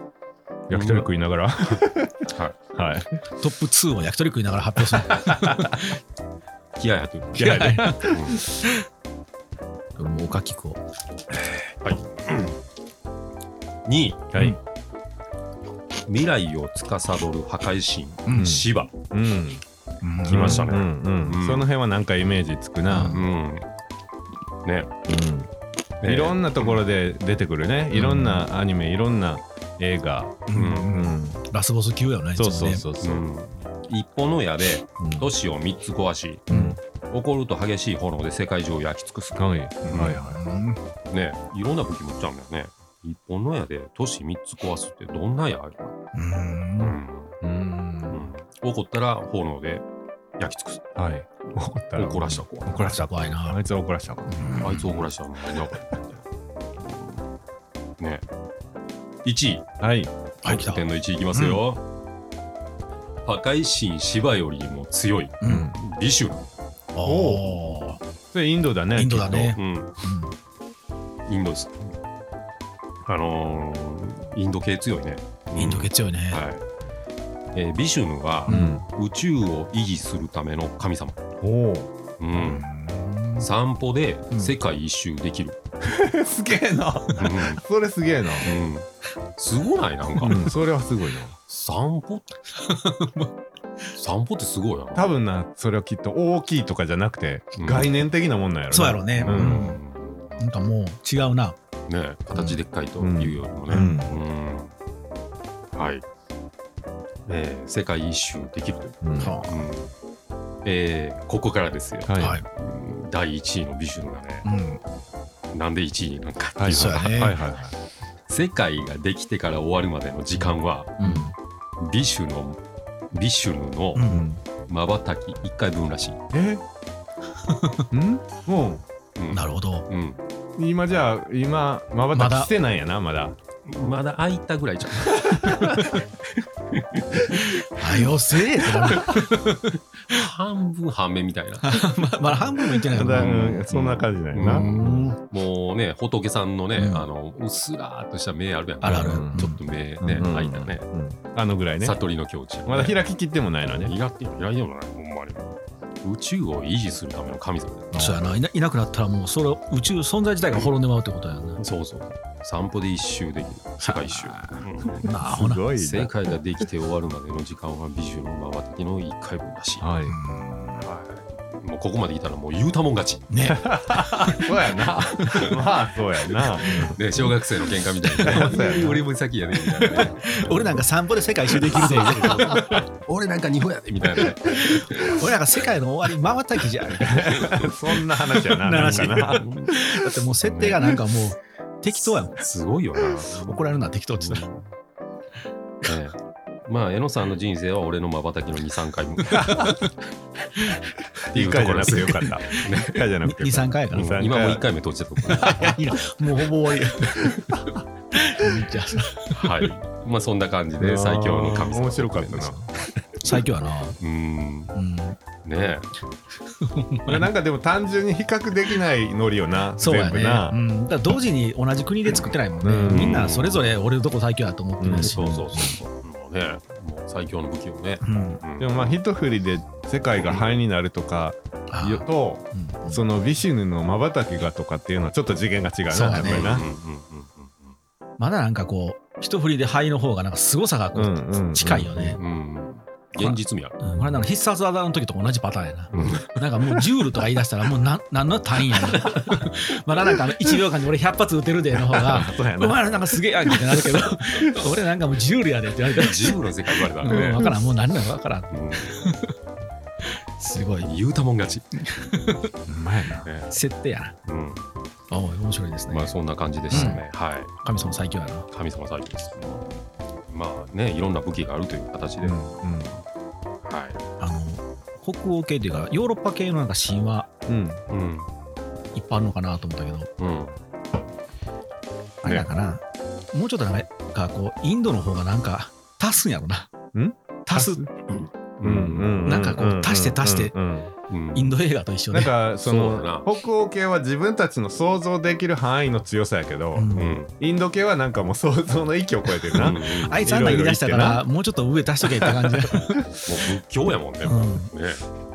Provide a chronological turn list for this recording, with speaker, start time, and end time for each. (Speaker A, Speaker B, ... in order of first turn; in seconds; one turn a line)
Speaker A: 0.7-1.1
Speaker B: 0.7-3.1
Speaker A: 2.3-2.5
Speaker C: 3.4-6.0
Speaker B: 5.2-5.7
Speaker A: 6.8-8.4
Speaker C: 7.3-8.7
Speaker B: 7.4-8.6
Speaker C: 10.0-10.8
Speaker A: 11.6-12.6
Speaker A: 13.8-14.5
Speaker A: 16.1-18.9
Speaker C: 18.3-18.6
Speaker B: 18.3-19.6
Speaker C: 20.0-20.7
Speaker A: 20.2-21.6
Speaker B: 20.3-23.2
Speaker C: 22.9-23.2
Speaker A: 23.1-23.6
Speaker A: 24.6-24.9
Speaker B: 25.1-25.5
Speaker A: 26.0-26.8
Speaker B: 26.0-31.4
Speaker C: 27.9-28.5
Speaker C: 30.5-32.8
Speaker A: 30.5-30.9
Speaker B: 32.4-33.2
Speaker A: 33.0-36.5
Speaker B: 35.0-35.3
Speaker C: 36.5-36.8
Speaker B: 36.5-36.8
Speaker A: 37.0-40.2
Speaker B: 39.4-40.4
Speaker C: 39.8-40.8
Speaker A: 41.1-46.0
Speaker C: 46.1-47.0
Speaker A: 46.8-47.4
Speaker B: 47.4-48.3
Speaker A: 48.1-49.8
Speaker A: 50.4-50.8
Speaker B: 51.0-55.1
Speaker A: 51.9-52.8
Speaker C: 52.7-53.6
Speaker C: 54.3-54.9
Speaker A: 54.6-56.2
Speaker A: 56.8-57.2
Speaker A: 59.2-59.7
Speaker B: 59.8-60.1
Speaker C: 60.4-60.8
Speaker A: 60.4-61.8
Speaker A: 63.2-66.5
Speaker C: 65.4-65.7
Speaker B: 65.4-65.8
Speaker C: 66.9-68.0
Speaker B: 67.0-67.6
Speaker B: 68.3-69.5
Speaker C: 68.9-70.3
Speaker A: 69.5-69.9
Speaker A: 71.3-71.9
Speaker A: 73.0-76.6
Speaker C: 75.5-76.4
Speaker A: 77.5-81.2
Speaker C: 78.5-78.8
Speaker B: 78.5-78.8
Speaker B: 81.4-81.9
Speaker A: 82.2-82.6
Speaker C: 82.4-83.5
Speaker A: 83.4-85.5
Speaker B: 85.8-88.5
Speaker A: 87.2-87.6
Speaker A: 88.4-90.4
Speaker B: 90.2-91.3
Speaker A: 91.5-92.3
Speaker C: 92.5-93.3
Speaker A: 94.0-95.1
Speaker B: 94.9-99.7
Speaker A: 97.6-98.0
Speaker C: 98.7-99.8
Speaker A: 99.2-100.4
Speaker C: 100.4-101.6
Speaker A: 101.9-104.7
Speaker C: 102.3-102.6
Speaker B: 103.0-104.1
Speaker C: 103.7-104.2
Speaker A: 105.7-106.0
Speaker A: 107.3-109.9
Speaker B: 109.0-109.4
Speaker C: 109.2-109.6
Speaker A: 110.6-114.5
Speaker B: 112.0-112.4
Speaker C: 112.2-112.4
Speaker C: 114.4-114.8
Speaker A: 115.5-117.1
Speaker B: 116.6-117.8
Speaker C: 116.7-117.4
Speaker A: 118.3-121.0
Speaker C: 121.0-121.3
Speaker B: 121.0-121.3
Speaker A: 121.8-122.6
Speaker A: 123.1-124.0
Speaker C: 123.9-124.2
Speaker B: 124.0-124.4
Speaker A: 124.7-126.2
Speaker B: 126.3-126.6
Speaker C: 127.5-127.8
Speaker B: 127.9-128.8
Speaker A: 129.2-130.2
Speaker C: 129.3-129.8
Speaker B: 130.6-133.4
Speaker C: 132.1-132.5
Speaker A: 133.6-137.8
Speaker B: 135.3-135.6
Speaker C: 137.8-140.2
Speaker A: 138.8-139.4
Speaker A: 140.1-141.9
Speaker C: 141.6-143.6
Speaker B: 142.9-145.0
Speaker A: 143.1-150.8
Speaker C: 144.4-145.2
Speaker C: 146.8-147.1
Speaker C: 148.8-149.6
Speaker B: 148.9-149.5
Speaker B: 150.0-151.9
Speaker A: 151.8-153.0
Speaker B: 152.7-153.9
Speaker A: 153.8-158.2
Speaker C: 157.9-161.6
Speaker A: 161.6-165.1
Speaker C: 163.8-165.6
Speaker B: 165.0-166.1
Speaker A: 165.7-169.8
Speaker B: 169.8-170.2
Speaker C: 170.1-170.9
Speaker A: 170.8-173.3
Speaker C: 173.3-174.5
Speaker B: 173.4-177.0
Speaker A: 175.3-175.5
Speaker C: 176.6-177.2
Speaker A: 176.9-180.8
Speaker C: 178.0-179.0
Speaker B: 178.2-179.0
Speaker C: 179.7-182.6
Speaker A: 181.6-185.3
Speaker B: 182.0-182.8
Speaker C: 184.7-187.6
Speaker B: 187.1-190.0
Speaker A: 187.3-187.7
Speaker C: 188.4-192.4
Speaker A: 188.7-189.8
Speaker A: 190.4-191.0
Speaker A: 192.2-194.6
Speaker C: 193.4-194.4
Speaker A: 195.8-199.7
Speaker C: 199.3-199.9
Speaker B: 199.4-199.7
Speaker B: 201.3-204.6
Speaker A: 201.3-203.1
Speaker C: 202.2-204.2
Speaker A: 203.9-205.8
Speaker C: 205.2-209.7
Speaker B: 205.3-205.7
Speaker B: 207.0-207.8
Speaker A: 209.3-212.6
Speaker B: 210.8-212.7
Speaker C: 213.2-214.0
Speaker A: 214.0-214.7
Speaker C: 214.7-215.2
Speaker A: 215.4-215.9
Speaker C: 216.5-217.3
Speaker B: 217.1-220.5
Speaker C: 219.8-225.8
Speaker B: 222.6-223.3
Speaker A: 222.9-223.7
Speaker B: 224.8-225.8
Speaker A: 225.0-228.9
Speaker C: 228.0-228.4
Speaker B: 228.6-236.7
Speaker A: 230.2-230.5
Speaker C: 231.7-233.0
Speaker C: 235.9-236.6
Speaker A: 236.2-237.8
Speaker C: 238.2-242.2
Speaker B: 240.9-242.2
Speaker A: 242.2-243.8
Speaker C: 243.2-256.4
Speaker B: 243.8-244.2
Speaker A: 245.9-246.2
Speaker B: 251.7-252.9
Speaker B: 253.4-254.6
Speaker A: 255.9-257.6
Speaker C: 257.0-259.3
Speaker B: 257.1-257.4
Speaker A: 258.5-259.1
Speaker C: 260.4-260.9
Speaker A: 260.8-262.1
Speaker C: 261.8-262.5
Speaker B: 262.7-263.3
Speaker A: 263.2-263.5
Speaker C: 263.5-264.1
Speaker A: 264.2-264.7
Speaker C: 265.1-266.1
Speaker A: 265.9-273.0
Speaker C: 266.7-267.0
Speaker B: 266.7-267.0
Speaker C: 267.6-268.5
Speaker B: 272.2-272.9
Speaker A: 273.6-274.0
Speaker C: 274.2-277.3
Speaker B: 277.5-277.8
Speaker A: 277.9-278.3
Speaker C: 278.9-280.1
Speaker A: 280.2-280.6
Speaker C: 282.2-286.7
Speaker B: 286.9-287.9
Speaker C: 287.4-287.9
Speaker A: 288.1-289.3
Speaker B: 288.6-290.9
Speaker C: 289.2-290.5
Speaker A: 291.1-291.6
Speaker C: 291.3-292.3
Speaker B: 292.1-301.2
Speaker A: 292.6-293.3
Speaker C: 296.7-297.2
Speaker A: 296.9-297.3
Speaker A: 299.5-300.2
Speaker C: 299.6-303.1
Speaker B: 302.2-303.0
Speaker A: 303.2-305.0
Speaker C: 304.2-304.7